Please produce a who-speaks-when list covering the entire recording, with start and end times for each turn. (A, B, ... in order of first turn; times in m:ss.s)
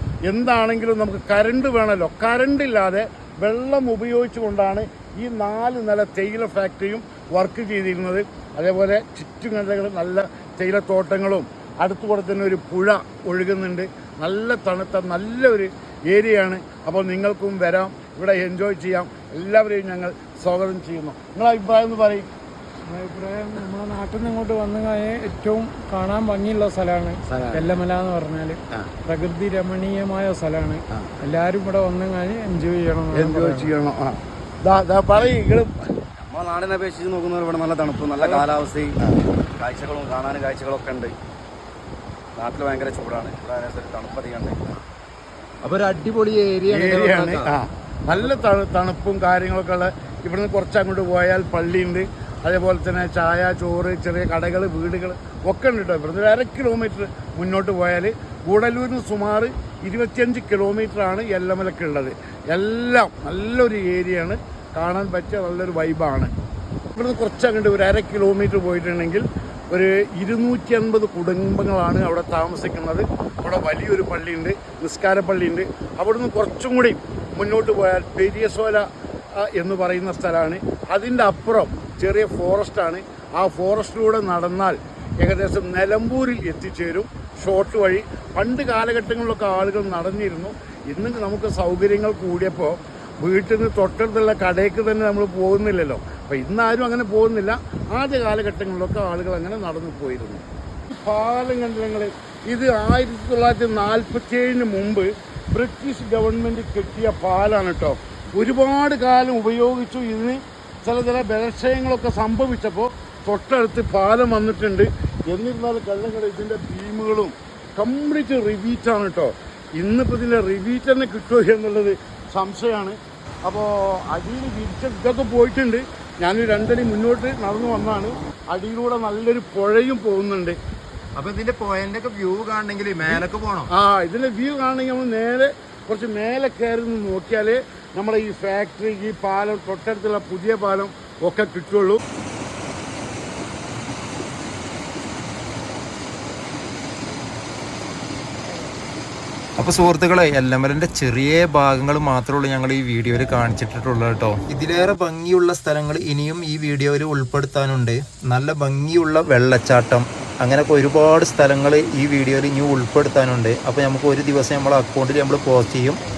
0:00.3-0:22.3 A
0:22.9-0:33.7 B
0:27.3-0:27.8 A
0:33.1-0:35.8 A
0:36.2-0:41.1 C
0:39.0-0:39.3 A
0:42.4-0:44.8 C
0:45.6-0:47.5 D
0:46.7-1:06.3 A
1:06.9-1:18.8 A
1:19.4-2:10.6 A
2:11.2-2:13.7 D
2:13.1-2:22.0 A
2:29.6-2:46.0 D